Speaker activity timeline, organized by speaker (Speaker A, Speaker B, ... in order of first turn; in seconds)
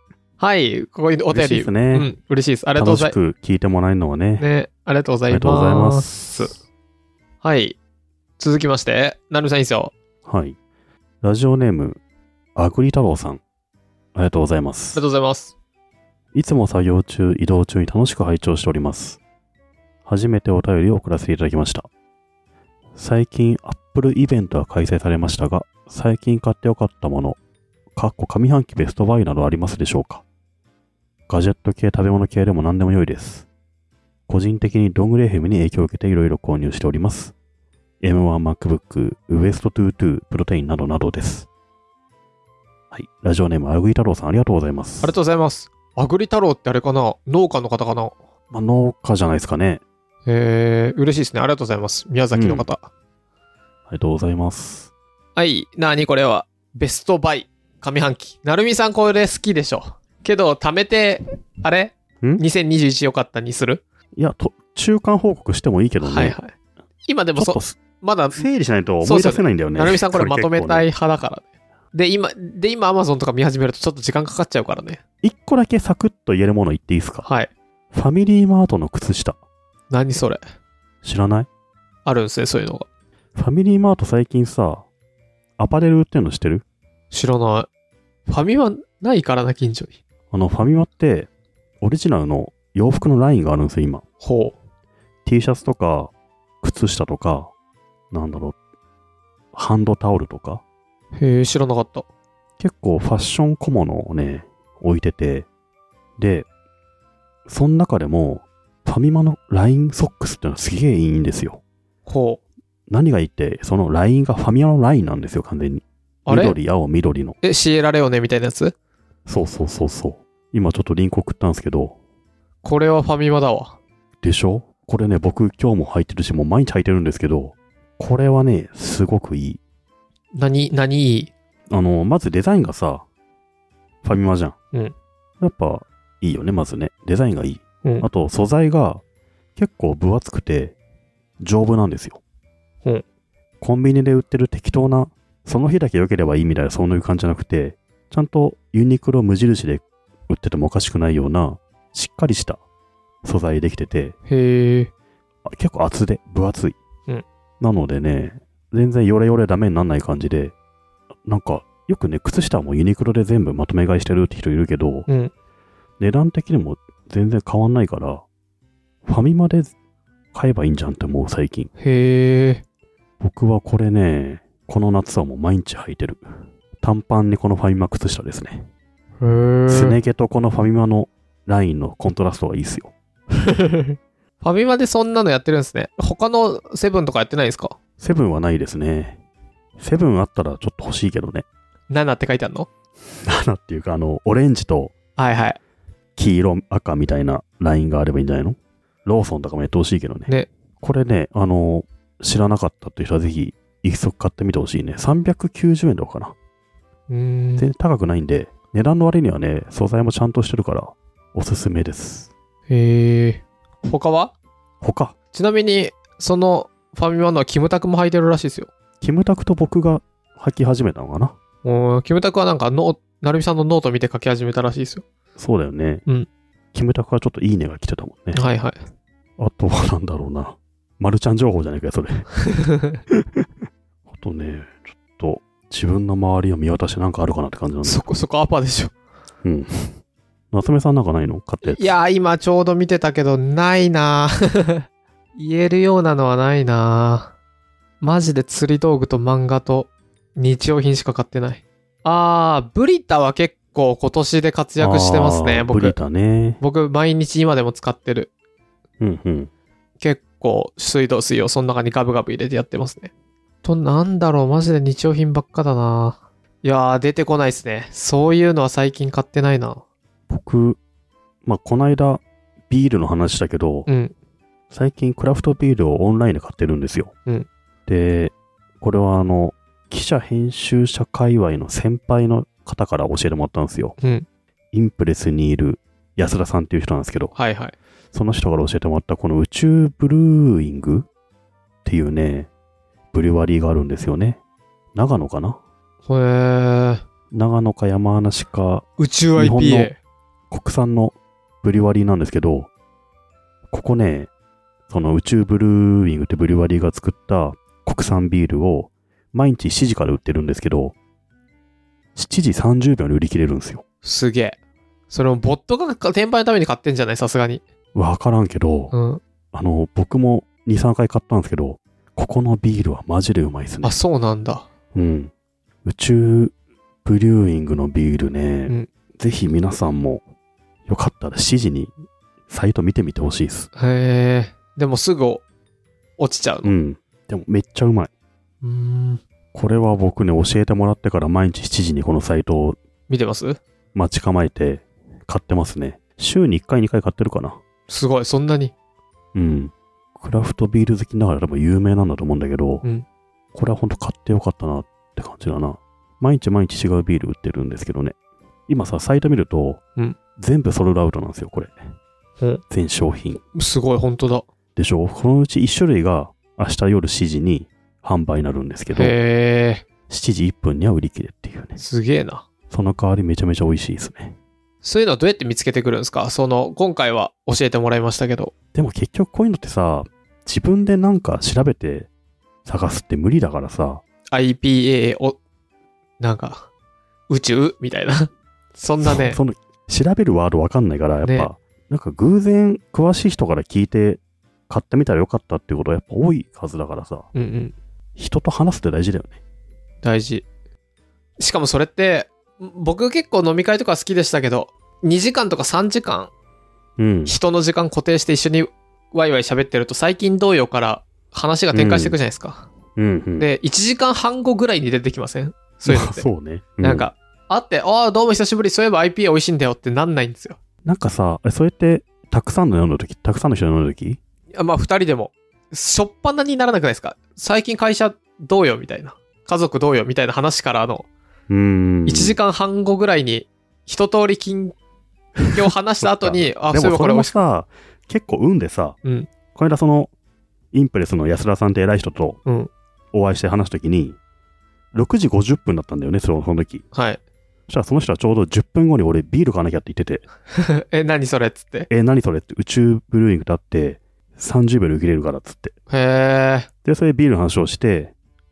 Speaker A: 0.4-3.1, 4.4-6.5, 7.4-7.8, 8.4-9.9, 14.9-15.5, 45.0-48.1, 50.2-52.9, 55.4-63.8, 66.0-66.5, 67.0-68.5, 69.0-75.0, 77.2-77.5, 79.9-80.4, 82.0-82.8, 87.1-87.7, 88.3-89.9, 94.2-94.5, 101.2-102.0, 112.0-112.4, 116.3-116.6, 117.4-118.7, 122.6-123.8, 130.3-131.3, 154.3-154.9, 165.1-165.3, 171.8-172.6, 179.2-180.0, 183.4-187.8, 191.9-192.7, 195.2-195.6, 207.1-207.7, 212.7-214.3, 215.3-218.7, 221.6-225.0, 228.3-228.8, 232.4-233.0, 237.8-238.9, 241.6-247.3, 248.0-256.0, 256.6-258.3, 260.0-263.1, 263.6-269.8, 273.9-274.1, 284.0-284.2, 287.3-287.7, 296.1-297.0, 299.0-299.9, 314.0-314.6, 315.1-317.6, 318.9-319.2, 323.8-324.7, 333.8-335.4, 336.2-336.7, 338.6-339.2, 343.1-343.6, 347.9-348.7, 363.5-364.4, 368.9-369.8, 371.8-372.4, 374.8-378.5, 384.3-385.4, 386.2-386.7, 387.3-389.4, 397.3-397.7, 400.0-400.4, 401.4-406.3, 407.2-412.7, 413.4-416.3, 416.8-420.6, 424.6-431.1, 432.1-434.7, 435.5-437.4, 442.4-442.7, 446.9-447.2, 450.5-451.9, 455.9-456.7
Speaker B: 1.3-2.1, 2.8-4.5, 5.3-6.1, 10.2-10.6, 11.2-12.0, 12.6-13.4, 14.1-15.0, 16.3-19.2, 20.1-21.9, 22.9-27.4, 27.9-30.2, 31.3-33.5, 34.3-37.3, 38.0-41.5, 42.9-45.1, 48.5-49.8, 52.3-52.7, 53.9-54.9, 64.1-66.4, 67.3-67.8, 68.3-70.9, 75.2-77.3, 77.9-79.4, 81.0-81.5, 83.3-84.9, 85.6-86.6, 90.3-91.3, 91.8-94.0, 95.2-97.5, 98.1-98.5, 99.5-100.6, 102.6-105.5, 106.2-106.5, 107.5-111.6, 112.9-117.4, 119.3-122.0, 124.2-129.6, 131.7-133.0, 134.0-134.6, 135.4-139.0, 139.6-140.8, 141.4-142.2, 143.6-152.6, 153.2-154.1, 155.4-156.8, 157.6-160.5, 161.2-165.1, 166.0-168.2, 169.0-169.7, 170.3-171.7, 173.2-176.2, 176.8-178.7, 179.7-182.9, 188.0-189.2, 189.8-191.4, 193.2-194.9, 196.2-206.3, 207.6-212.3, 214.8-215.2, 219.0-221.3, 225.4-226.0, 226.7-228.4, 229.4-232.3, 233.1-233.4, 234.1-238.0, 239.4-240.0, 240.5-241.9, 254.8-256.6, 259.0-259.5, 270.3-270.8, 271.4-273.9, 274.7-277.1, 277.9-283.9, 284.7-287.3, 288.1-291.1, 291.8-292.5, 293.1-294.4, 294.9-295.6, 297.3-299.9, 300.5-302.7, 303.7-304.3, 304.9-310.9, 312.1-313.8, 317.9-318.9, 319.5-323.9, 324.9-325.3, 325.8-326.5, 327.0-330.2, 330.9-331.9, 332.5-333.7, 336.6-338.1, 339.5-342.8, 343.9-347.6, 349.3-352.9, 353.5-358.1, 358.7-359.8, 360.4-361.7, 362.7-363.4, 364.8-369.1, 370.1-371.8, 372.7-374.4, 378.7-382.1, 382.6-384.0, 389.0-397.3, 398.1-399.4, 407.0-407.3, 411.7-412.2, 412.9-413.5, 415.8-417.1, 420.8-424.2, 431.5-432.4, 435.4-439.0, 439.5-440.1, 440.7-442.4, 443.1-444.2, 444.9-446.8, 447.7-450.2, 451.9-455.7, 456.8-458.1